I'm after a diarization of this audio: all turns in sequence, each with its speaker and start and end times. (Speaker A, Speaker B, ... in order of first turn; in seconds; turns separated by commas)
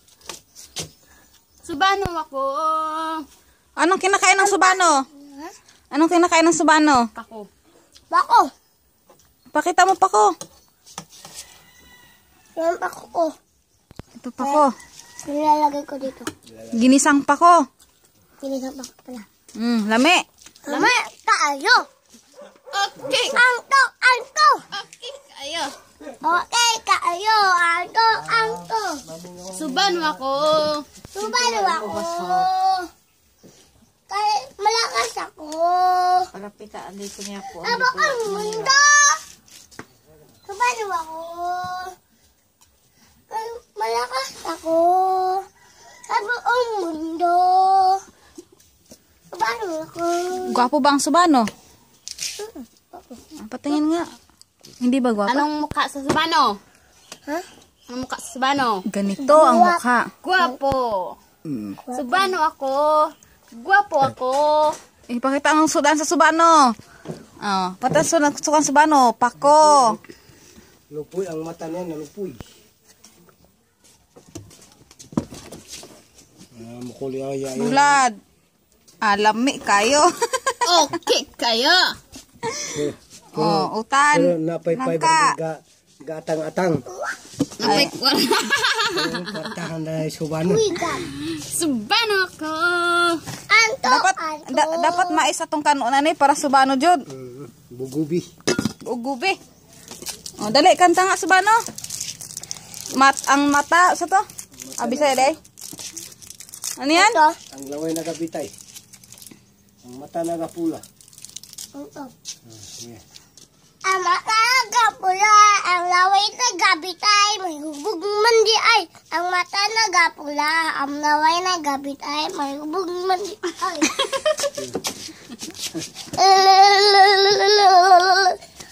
Speaker A: 1.6-3.2, Speaker B: 3.8-5.0, Speaker C: 4.4-5.5, Speaker B: 5.9-7.1, Speaker A: 7.2-7.5, Speaker C: 8.1-8.5, Speaker B: 9.5-10.3, Speaker C: 12.6-13.3, Speaker B: 14.2-14.7, Speaker C: 14.4-14.7, Speaker C: 15.2-16.3, Speaker D: 16.5-16.8, Speaker B: 16.8-17.6, Speaker C: 18.4-19.3, Speaker B: 19.6-20.2, Speaker C: 20.6-21.9, Speaker A: 20.7-20.9, Speaker A: 22.7-23.4, Speaker C: 23.1-24.6, Speaker A: 24.7-25.7, Speaker C: 26.2-29.0, Speaker D: 28.2-30.2, Speaker A: 29.5-30.9, Speaker C: 31.1-32.9, Speaker B: 31.2-32.5, Speaker C: 34.1-36.3, Speaker B: 36.3-38.8, Speaker C: 37.5-39.2, Speaker C: 40.5-41.9, Speaker C: 43.3-45.4, Speaker C: 46.1-48.0, Speaker C: 49.3-50.7, Speaker B: 50.4-51.5, Speaker C: 52.4-53.2, Speaker B: 53.4-54.1, Speaker B: 54.8-55.5, Speaker A: 55.3-56.6, Speaker A: 57.9-58.8, Speaker B: 58.9-60.1, Speaker C: 59.2-59.8, Speaker A: 60.2-61.2, Speaker C: 61.8-62.3, Speaker A: 61.9-64.8, Speaker B: 65.1-66.7, Speaker B: 67.4-70.0, Speaker D: 69.5-70.0, Speaker D: 70.9-72.4, Speaker D: 76.5-78.0, Speaker B: 77.6-78.2, Speaker B: 79.0-80.9, Speaker A: 80.7-82.0, Speaker B: 82.5-82.7, Speaker D: 82.7-86.8, Speaker B: 83.3-85.3, Speaker C: 86.9-87.2, Speaker A: 87.6-89.5, Speaker B: 87.6-87.9, Speaker D: 88.9-90.6, Speaker C: 90.5-91.1, Speaker A: 91.0-93.2, Speaker C: 93.5-95.3, Speaker B: 93.9-97.0, Speaker D: 97.1-98.3, Speaker B: 98.8-99.4, Speaker B: 100.4-101.6, Speaker B: 102.9-104.2, Speaker D: 104.7-105.4, Speaker B: 104.8-105.4, Speaker B: 106.8-107.2, Speaker C: 107.0-107.4, Speaker D: 107.5-108.5, Speaker D: 109.8-110.8, Speaker C: 111.8-112.1, Speaker D: 112.5-113.0, Speaker C: 113.8-124.0, Speaker A: 123.9-124.5, Speaker C: 126.2-128.4